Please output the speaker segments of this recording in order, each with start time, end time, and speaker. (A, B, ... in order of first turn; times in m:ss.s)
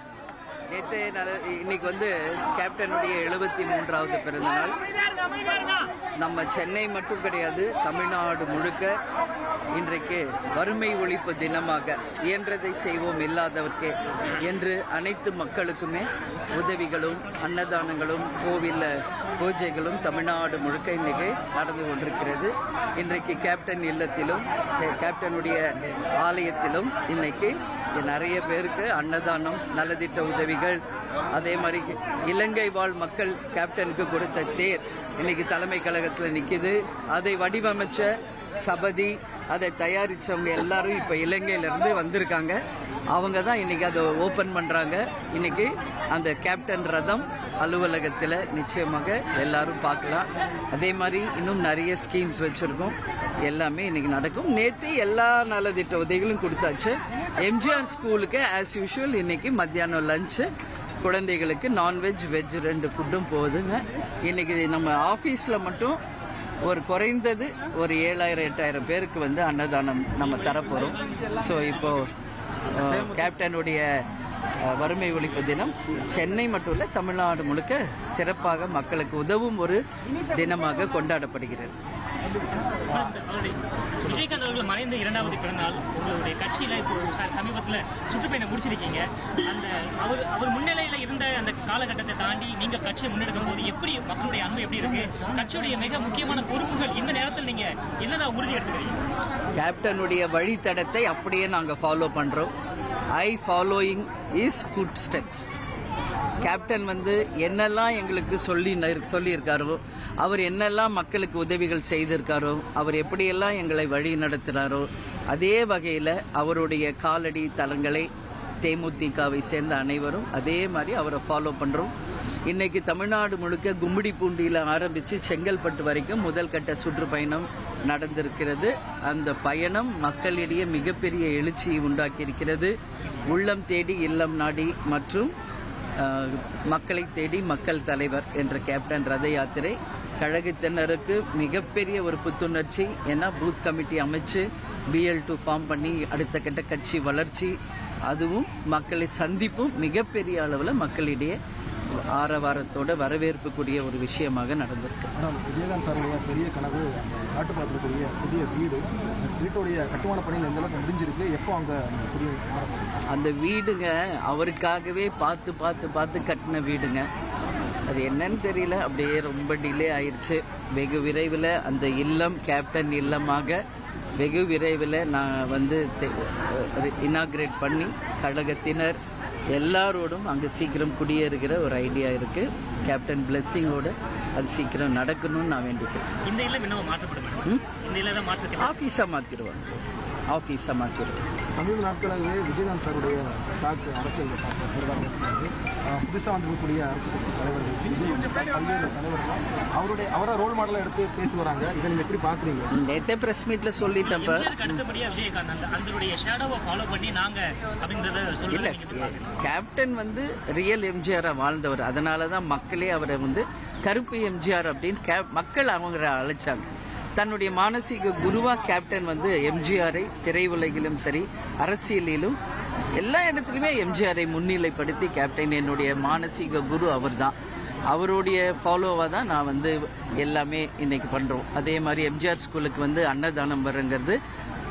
0:00.7-0:04.8 A
0:06.2-0:08.9 A
0:09.7-0:25.6 A
0:26.2-0:30.8 A
0:31.3-0:42.6 A
0:43.1-1:00.5 A
1:01.0-1:06.0 A
1:06.6-1:12.1 A
1:12.7-1:13.8 A
1:14.6-1:21.8 A
1:22.9-1:39.0 B
1:39.6-1:42.5 A
1:43.1-1:45.5 A
1:46.4-1:58.1 A
1:58.6-2:01.9 A
2:02.5-2:12.7 A
2:13.3-2:15.3 A
2:16.0-2:27.6 A
2:28.1-2:31.4 A
2:32.1-2:35.1 A
2:35.2-2:42.9 C
2:43.1-2:47.0 A
2:47.9-2:53.6 A
2:54.2-2:59.0 A
2:59.5-3:06.1 A
3:06.3-3:08.8 B
3:07.4-3:07.8 A
3:08.6-3:09.8 A
3:10.3-3:11.3 A
3:11.5-3:22.7 C
3:22.7-3:24.8 A
3:24.0-3:29.3 B
3:28.5-3:36.7 A
3:37.2-3:42.4 A
3:43.0-3:47.4 A
3:47.9-3:54.2 A